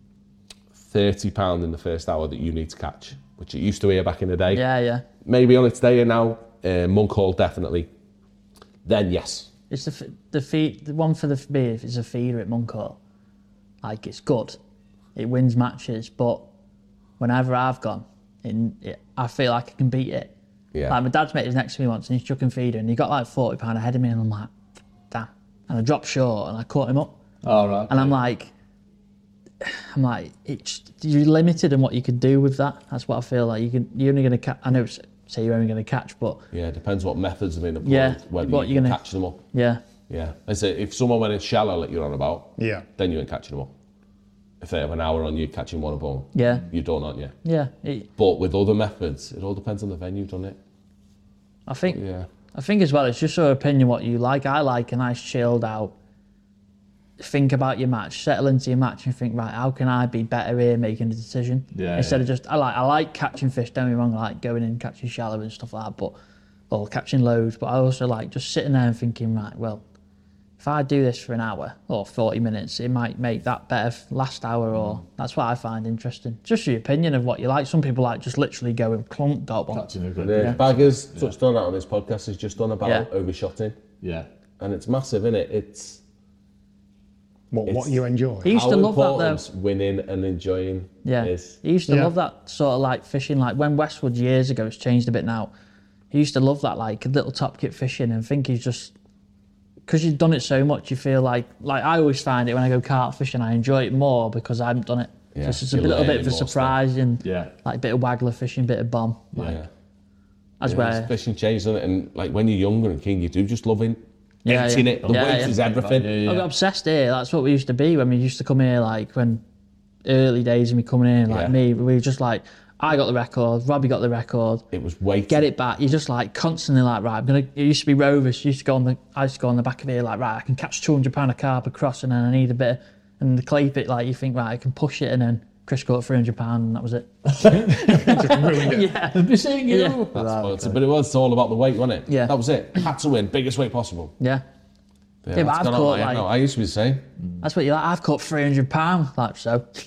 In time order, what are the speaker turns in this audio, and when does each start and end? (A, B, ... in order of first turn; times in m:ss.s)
0:00.8-0:04.6 A
0:04.5-0:05.0 B
0:05.2-0:07.9 A
0:08.8-0:09.5 A
0:09.7-0:13.0 B
0:13.8-0:14.6 B
0:15.2-0:16.4 B
0:17.2-0:20.3 B
0:20.7-0:21.0 A
0:20.9-0:24.5 B
0:25.1-0:27.1 B
0:27.4-0:28.2 C
0:27.9-0:28.5 B
0:29.6-0:36.4 B
0:36.5-0:39.4 A
0:37.8-0:39.0 B
0:39.5-0:39.8 B
0:40.1-0:43.7 A
0:42.6-0:42.9 D
0:44.6-0:47.3 A
0:46.3-0:46.7 B
0:47.4-0:48.1 B
0:48.2-0:50.6 A
0:51.7-0:52.0 B
0:51.9-0:52.3 A
0:52.5-0:55.9 B
0:57.2-1:06.2 B
1:01.7-1:02.3 C
1:06.7-1:09.8 B
1:10.6-1:19.9 B
1:14.7-1:15.0 C
1:19.7-1:21.3 C
1:20.2-1:23.8 A
1:22.8-1:23.1 B
1:24.0-1:24.3 C
1:24.6-1:26.0 A
1:27.5-1:28.5 D
1:27.7-1:31.6 A
1:28.4-1:29.4 B
1:31.0-1:35.5 B
1:36.1-1:38.9 B
1:39.9-1:49.5 B
1:45.4-1:46.8 A
1:47.2-1:47.5 C
1:49.3-1:49.6 C
1:49.4-1:49.7 A
1:50.6-1:51.1 B
1:50.6-1:56.2 A
1:54.4-1:55.6 B
1:55.0-1:56.5 C
1:56.2-1:59.4 B
2:00.0-2:04.6 B
2:01.3-2:01.6 A
2:04.7-2:05.5 A
2:05.3-2:20.0 B
2:17.4-2:20.8 C
2:18.0-2:18.9 D
2:20.1-2:24.1 A
2:22.1-2:22.3 B
2:25.2-2:27.0 A
2:25.4-2:26.3 B
2:27.4-2:29.6 B